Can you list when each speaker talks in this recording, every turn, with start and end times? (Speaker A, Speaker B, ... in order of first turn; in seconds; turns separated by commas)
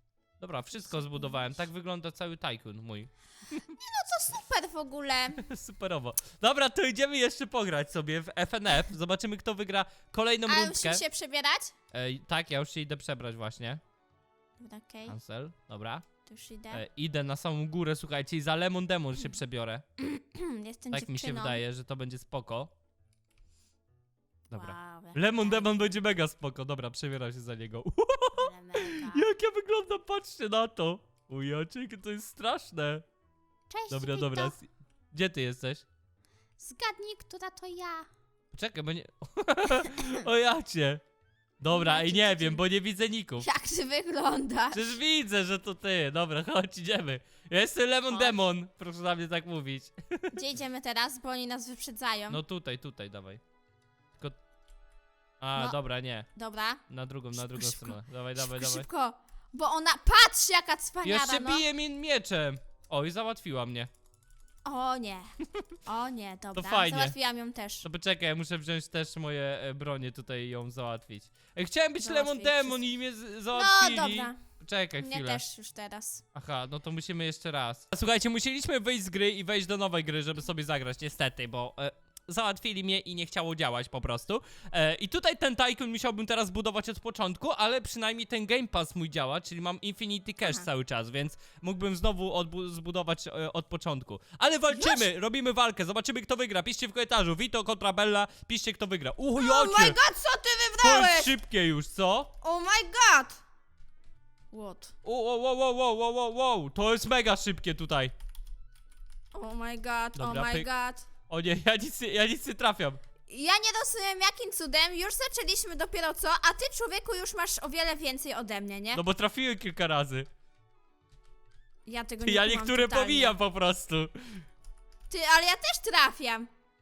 Speaker A: 0.4-3.6, Speaker B: 0.9-1.4, Speaker B: 3.6-5.5, Speaker A: 5.4-11.0, Speaker B: 10.4-11.7, Speaker A: 11.9-13.8, Speaker B: 14.6-15.1, Speaker A: 15.1-16.1, Speaker B: 16.2-16.8, Speaker A: 16.7-19.8, Speaker B: 20.0-21.6, Speaker A: 20.9-22.7, Speaker A: 24.5-33.0, Speaker B: 24.5-25.9, Speaker B: 28.3-29.3, Speaker B: 33.7-34.5, Speaker A: 33.9-35.8, Speaker B: 36.6-38.1, Speaker A: 38.5-41.0, Speaker A: 41.6-43.5, Speaker B: 41.7-42.6, Speaker B: 43.4-44.9, Speaker A: 44.7-50.3, Speaker B: 48.1-48.4, Speaker B: 50.3-52.4, Speaker A: 52.3-53.4, Speaker A: 55.4-56.3, Speaker B: 55.5-56.8, Speaker A: 56.9-58.9, Speaker B: 57.3-61.6, Speaker A: 61.0-63.9, Speaker B: 64.6-65.3, Speaker B: 65.8-67.8, Speaker A: 66.5-67.1, Speaker A: 67.8-75.4, Speaker B: 72.0-72.8, Speaker B: 73.5-74.4, Speaker B: 75.0-76.2, Speaker A: 76.3-100.0, Speaker B: 94.7-95.1, Speaker B: 99.3-101.3, Speaker A: 100.8-102.3, Speaker B: 102.4-103.4, Speaker B: 104.5-104.9, Speaker A: 105.0-108.1, Speaker B: 109.3-111.1, Speaker A: 110.1-110.7, Speaker A: 111.3-113.0, Speaker B: 113.3-119.0, Speaker A: 118.9-120.3, Speaker B: 121.8-123.4, Speaker A: 122.2-124.4, Speaker B: 125.1-126.5